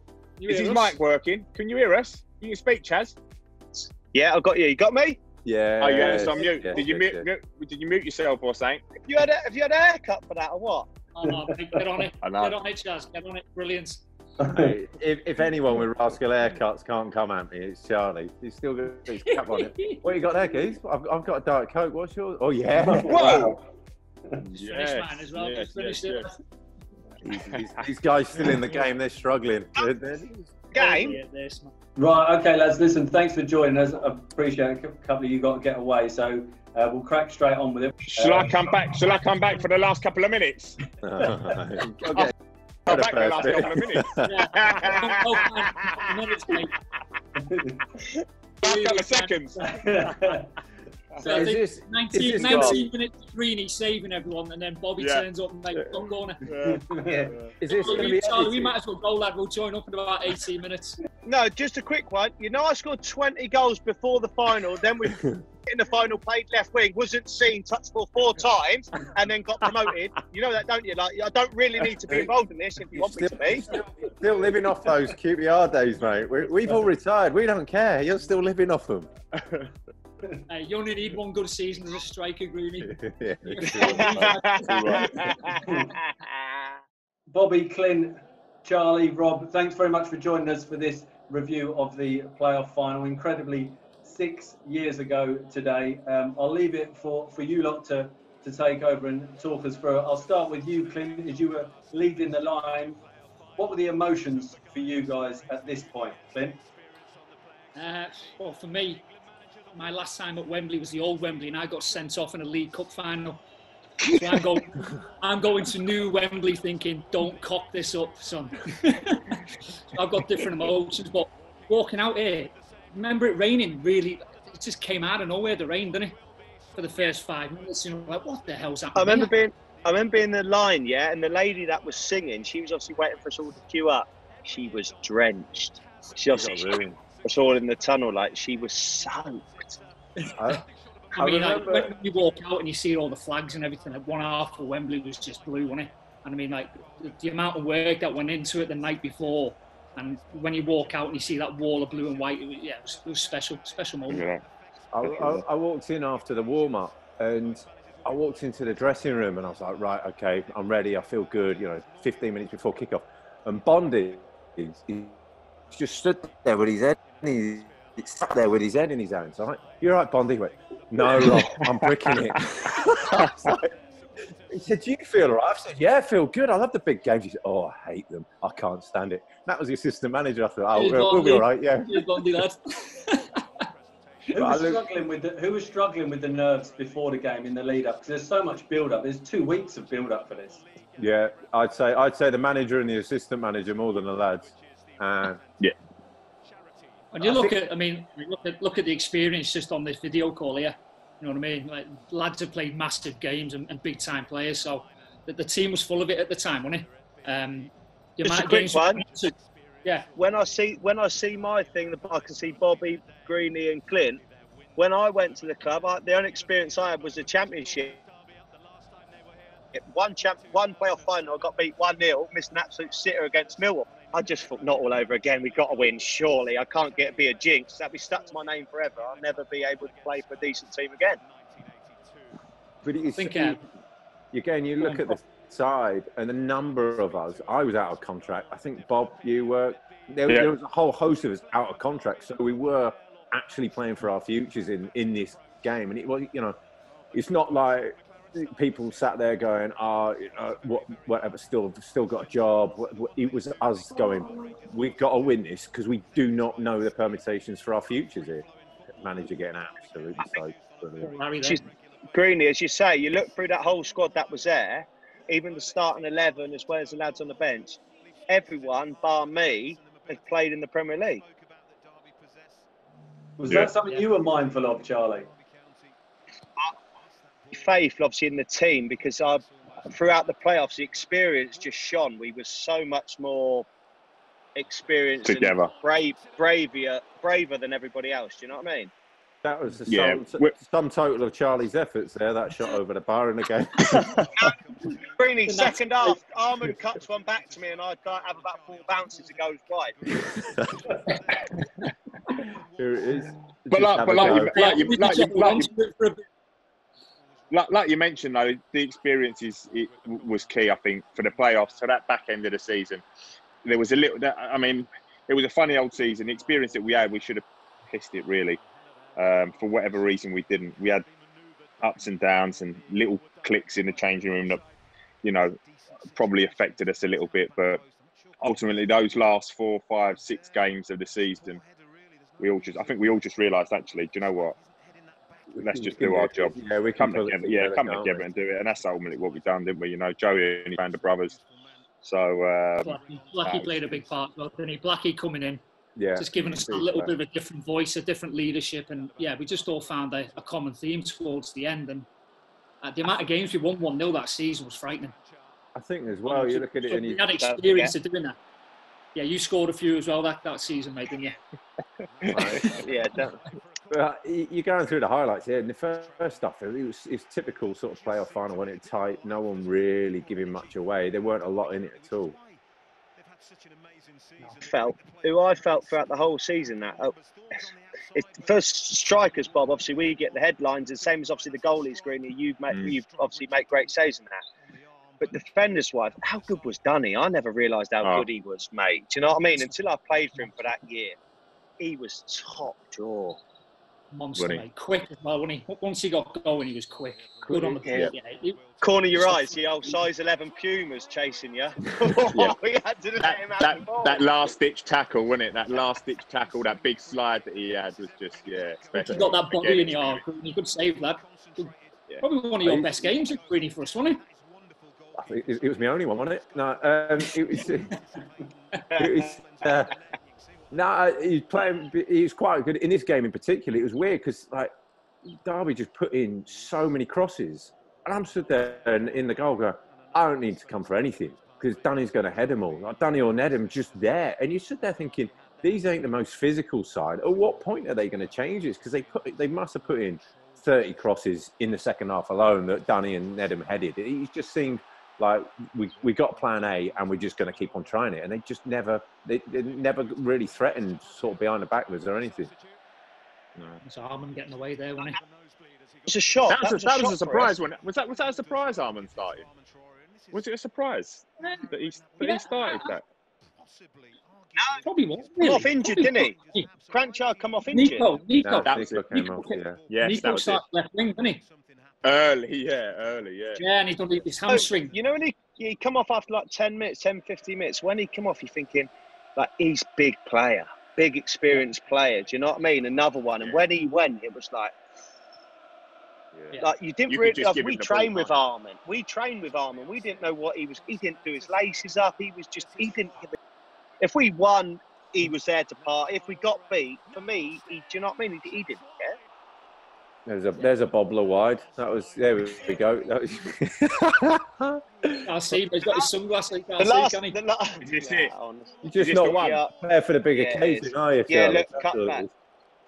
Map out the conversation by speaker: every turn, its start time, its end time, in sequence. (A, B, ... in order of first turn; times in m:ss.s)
0:00.4-0:01.0 A
0:00.5-0:03.2 B
0:03.7-0:05.2 C
0:05.4-0:07.3 D
0:05.8-0:08.8 B
0:09.0-0:10.9 C
0:11.1-0:14.0 A
0:12.2-0:12.5 B
0:14.4-0:14.7 E
0:14.4-0:23.6 D
0:19.2-0:20.0 A
0:22.8-0:23.6 E
0:23.0-0:23.6 B
0:24.4-0:26.2 B
0:24.6-0:26.4 A
0:27.2-0:30.6 D
0:27.2-0:27.7 B
0:30.7-0:31.2 C
0:30.7-0:31.7 A
0:32.0-0:38.7 E
0:38.0-0:40.8 B
0:41.0-0:42.3 D
0:42.8-0:44.4 D
0:42.9-0:46.0 B
0:44.2-0:46.8 A
0:47.4-0:47.8 E
0:48.6-0:49.7 A
0:48.6-0:49.6 B
0:49.6-0:50.5 E
0:51.2-0:56.4 A
0:51.2-0:52.8 D
0:52.4-0:52.8 C
0:55.0-0:55.2 B
0:56.4-0:57.5 B
0:56.6-0:57.3 E
0:57.6-0:58.7 D
0:57.7-1:01.0 A
1:01.2-1:13.7 C
1:05.1-1:05.4 D
1:12.9-1:19.1 D
1:19.4-1:19.7 B
1:20.5-1:25.3 A
1:22.9-1:24.2 D
1:23.8-1:26.8 C
1:24.1-1:25.3 B
1:25.6-1:25.9 E
1:27.3-1:43.0 E
1:43.6-1:46.6 E
1:47.7-1:49.0 A
1:49.7-1:53.4 A
1:54.1-2:06.2 A
2:06.7-2:09.3 A
2:08.9-2:19.8 C
2:16.3-2:17.0 D
2:20.3-2:20.6 A
2:20.3-2:20.6 D
2:21.1-2:34.2 A
2:21.2-2:21.9 D
2:34.1-2:34.4 B
2:34.9-2:45.2 D
2:35.0-2:35.4 B
2:45.7-2:53.7 D
2:51.2-2:51.7 B
2:54.5-3:02.4 D
3:00.7-3:03.4 A
3:04.3-3:10.6 E
3:04.3-3:04.8 D
3:11.0-3:15.4 D
3:17.1-3:30.1 A
3:28.2-3:29.0 C
3:30.2-3:34.2 C
3:34.8-3:38.0 C
3:39.7-3:51.2 C
3:52.8-3:53.6 D
3:53.2-3:53.6 A
3:54.3-4:06.6 D
3:54.8-3:55.2 A
4:00.2-4:00.5 B
4:07.1-4:21.1 D
4:21.0-4:21.7 A
4:22.1-4:31.2 C
4:33.4-4:35.3 E
4:37.5-4:43.7 C
4:44.6-4:48.9 C
4:45.2-4:45.7 B
4:49.4-4:54.2 D
4:49.9-4:50.5 B
4:54.4-5:00.0 C
4:55.4-4:56.2 A
5:00.1-5:00.9 D
5:02.8-5:04.6 D
5:03.7-5:05.7 B
5:04.1-5:06.2 A
5:07.5-5:13.0 B
5:13.6-5:18.6 B
5:19.2-5:21.0 B
5:21.8-5:24.6 B
5:25.2-5:25.6 B
5:26.1-5:27.8 B
5:28.4-5:31.6 B
5:32.4-5:34.6 B
5:35.5-5:38.2 D
5:35.6-5:41.4 B
5:42.0-5:43.9 B
5:42.8-5:45.6 A
5:46.0-5:47.1 D
5:46.2-5:52.1 A
5:52.8-5:55.1 A
5:55.7-5:57.3 D
5:56.2-5:58.4 A
5:57.4-5:57.9 C
5:59.1-6:01.4 A
6:02.3-6:03.4 C
6:02.3-6:02.6 D
6:03.9-6:12.4 D
6:14.6-6:17.2 C
6:18.1-6:24.4 C
6:25.2-6:31.2 C
6:31.8-6:33.4 C
6:34.1-6:38.6 A
6:37.5-6:38.1 D
6:37.5-6:38.1 C
6:38.8-6:44.2 C
6:39.1-6:39.6 A
6:43.2-6:50.2 B
6:48.9-6:54.2 A
6:52.6-6:53.1 D
6:55.1-6:58.0 D
6:58.9-6:59.3 C
6:58.9-7:00.0 D
7:00.7-7:04.7 D
7:05.2-7:32.5 D
7:33.6-7:33.8 B
7:33.8-7:35.2 A
7:36.1-7:37.5 C
7:36.5-7:39.5 B
7:40.3-7:43.0 B
7:42.2-7:42.9 A
7:44.6-7:44.8 C
7:44.8-7:46.7 A
7:45.4-7:46.3 C
7:46.9-7:48.1 C
7:47.7-7:51.4 A
7:48.4-7:49.8 D
7:48.6-7:49.0 B
7:49.9-7:50.6 B
7:52.0-7:53.6 B
7:53.6-7:54.9 A
7:54.5-8:04.7 C
8:06.3-8:08.3 B
8:06.6-8:13.4 C
8:14.0-8:19.2 C
8:20.2-8:25.6 D
8:25.2-8:27.4 A
8:26.8-8:29.7 C
8:27.8-8:28.3 B
8:28.8-8:32.3 D
8:29.0-8:29.6 B
8:30.4-8:32.2 C